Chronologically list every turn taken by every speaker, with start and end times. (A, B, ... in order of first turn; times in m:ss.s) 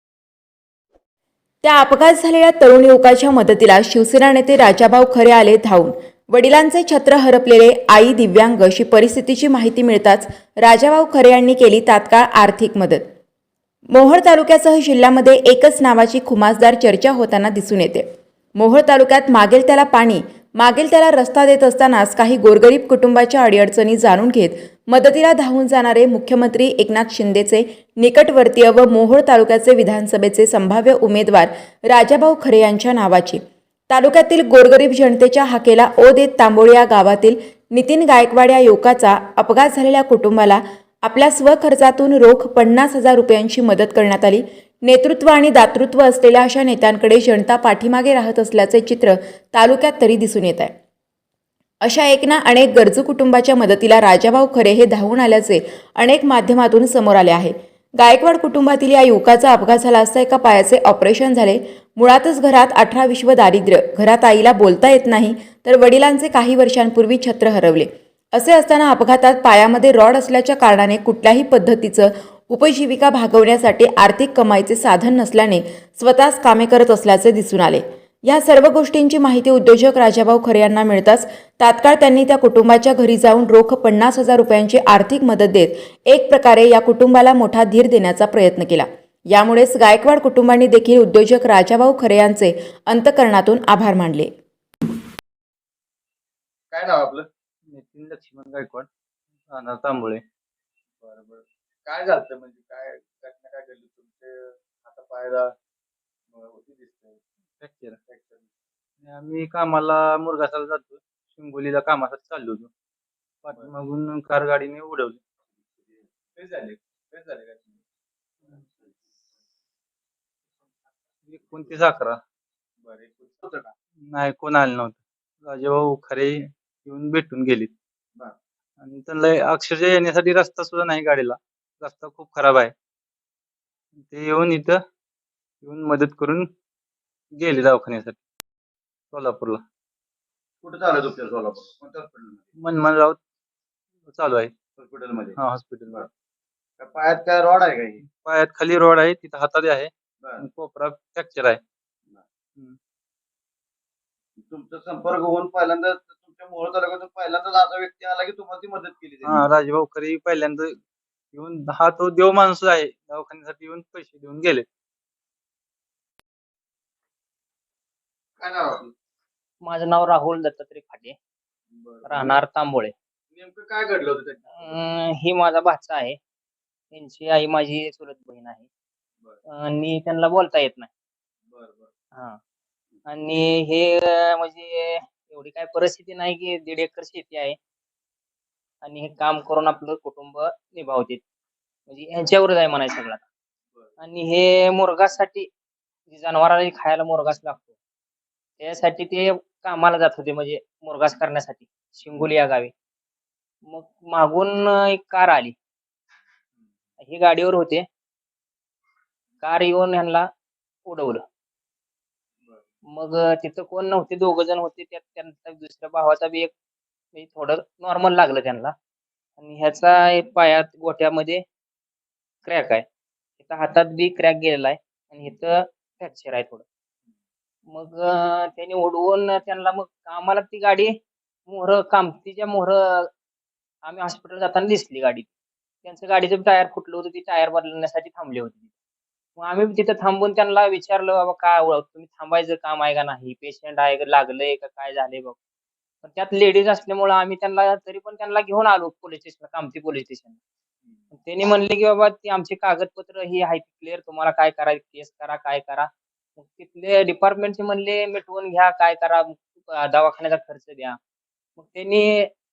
0:01.6-0:13.0 A
0:13.9-0:18.0 A
0:18.6-0:50.7 A
0:51.8-1:34.3 A
1:36.7-1:37.3 B
1:37.7-1:38.9 C
1:39.5-1:40.2 C
1:41.0-1:45.5 B
1:46.3-1:47.2 B
1:47.6-1:48.0 C
1:48.1-1:48.4 B
1:49.0-1:52.7 C
1:53.4-1:55.2 C
1:55.8-1:57.8 B
1:58.5-1:58.9 B
2:01.3-2:02.2 C
2:02.8-2:03.7 B
2:04.1-2:07.7 C
2:08.8-2:12.7 C
2:14.0-2:14.8 C
2:15.6-2:16.5 C
2:17.3-2:18.2 C
2:19.1-2:19.6 C
2:20.6-2:22.4 B
2:22.6-2:23.2 C
2:24.1-2:24.5 C
2:24.8-2:25.4 B
2:25.4-2:26.1 C
2:26.8-2:28.0 B
2:28.0-2:31.6 C
2:34.4-2:39.4 B
2:39.2-2:40.8 C
2:41.3-2:44.6 C
2:48.4-2:48.9 B
2:49.6-2:51.2 D
2:51.7-2:52.4 B
2:52.0-2:52.9 D
2:53.3-2:54.8 B
2:54.6-2:56.2 D
2:56.9-2:58.7 D
2:59.5-3:00.9 D
3:01.5-3:01.9 B
3:03.1-3:07.6 D
3:08.8-3:11.2 D
3:11.9-3:13.2 D
3:14.0-3:15.5 D
3:16.1-3:17.8 D
3:18.6-3:22.7 D
3:23.6-3:25.6 D
3:27.0-3:27.8 D
3:29.4-3:30.3 D
3:30.8-3:31.2 D
3:32.9-3:36.5 D
3:37.1-3:38.7 D
3:39.4-3:41.4 D
3:42.4-3:42.8 D
3:43.4-3:46.6 D
3:47.7-3:51.0 D
3:51.5-3:53.1 D
3:53.8-3:55.3 D
3:55.8-3:58.7 D
3:59.4-4:05.4 D
4:06.0-4:10.4 D
4:11.1-4:21.0 D
4:21.6-4:22.3 D